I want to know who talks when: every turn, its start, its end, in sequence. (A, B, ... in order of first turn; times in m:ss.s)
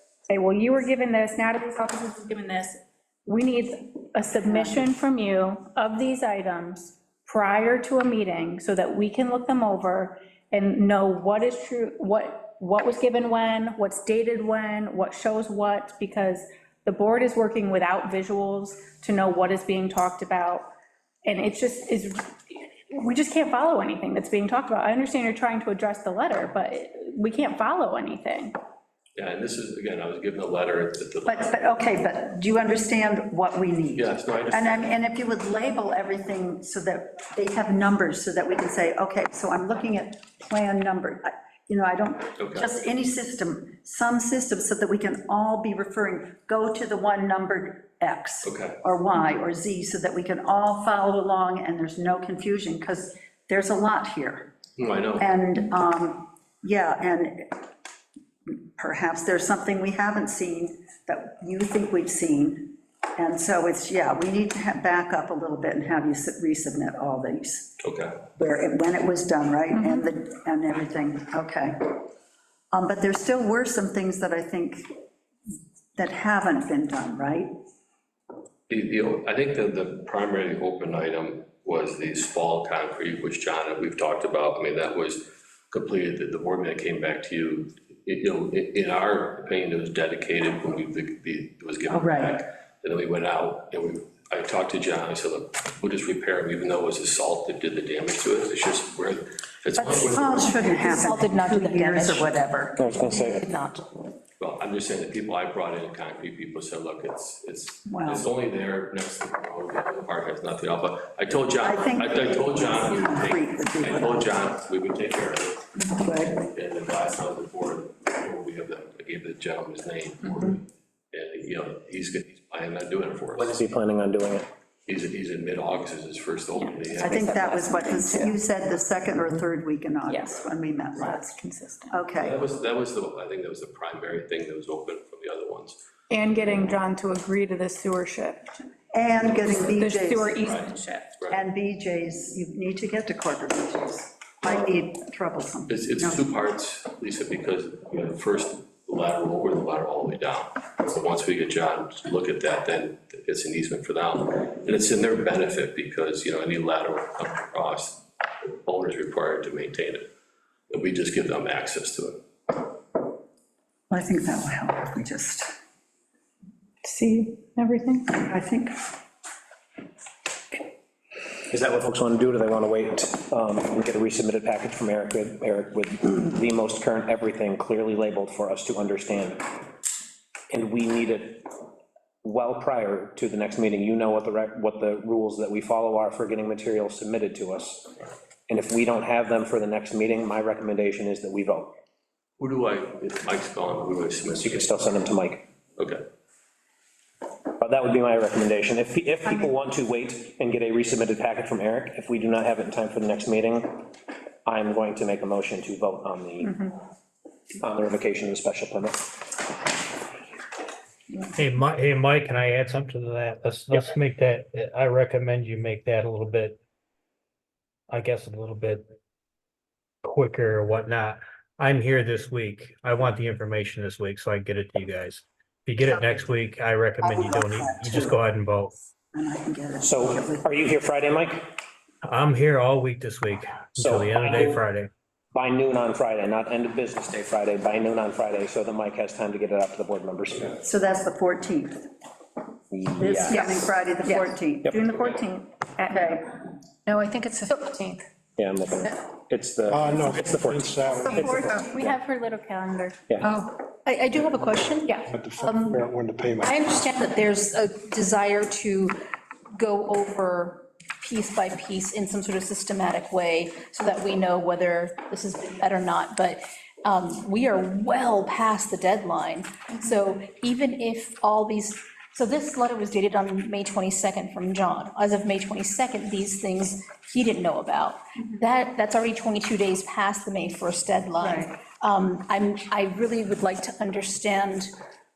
0:00.3-0:20.7 A
0:04.5-0:04.8 B
0:21.2-0:28.6 A
0:29.2-0:31.6 C
0:31.2-0:54.6 B
0:34.0-0:35.0 C
0:42.4-0:42.7 C
0:48.4-0:48.8 C
0:54.8-0:55.3 C
0:55.2-0:57.7 B
0:58.5-1:07.8 B
1:07.8-1:08.2 C
1:08.3-1:12.0 B
1:12.7-1:14.9 B
1:16.0-1:17.5 B
1:18.7-1:40.6 C
1:31.9-1:32.4 B
1:39.8-1:42.8 B
1:40.2-1:43.9 D
1:42.8-1:43.5 E
1:44.4-2:03.6 C
1:47.9-1:48.3 B
1:51.6-1:54.4 B
1:55.8-1:56.4 B
2:03.4-2:04.5 E
2:04.9-2:07.2 C
2:06.6-2:08.4 A
2:07.0-2:11.4 B
2:10.1-2:10.4 A
2:11.0-2:12.0 A
2:11.9-2:12.4 B
2:12.2-2:15.8 C
2:16.1-2:18.6 A
2:18.9-2:20.6 B
2:19.4-2:21.2 A
2:20.4-2:21.4 C
2:21.3-2:26.3 B
2:25.7-2:40.1 C
2:40.7-2:42.2 C
2:43.9-2:45.5 B
2:46.8-2:48.1 A
2:48.1-2:48.8 B
2:51.5-2:59.6 E
3:00.5-3:01.6 E
3:02.2-3:08.0 E
3:08.5-3:11.8 E
3:12.4-3:14.7 C
3:14.4-3:15.4 E
3:15.8-3:16.0 C
3:17.6-3:23.9 E
3:24.4-3:26.7 E
3:27.6-3:29.4 E
3:31.3-3:36.6 F
3:37.9-3:38.8 F
3:40.0-3:48.8 F
3:47.0-3:48.2 B
3:49.1-3:50.5 B
3:49.8-3:51.6 E
3:52.0-3:54.9 F
3:53.8-3:54.6 E
3:55.3-4:00.6 E
4:00.6-4:01.9 B
4:02.7-4:03.7 E
4:03.0-4:04.7 B
4:03.3-4:06.2 A
4:05.9-4:06.2 B
4:06.9-4:07.9 A
4:07.2-4:07.6 D
4:08.4-4:12.0 E
4:09.7-4:11.9 G
4:11.0-4:11.6 D
4:11.0-4:13.0 A
4:13.2-4:15.8 D
4:15.1-4:16.6 G
4:16.4-4:19.0 D
4:19.5-4:44.7 D
4:41.2-4:41.5 B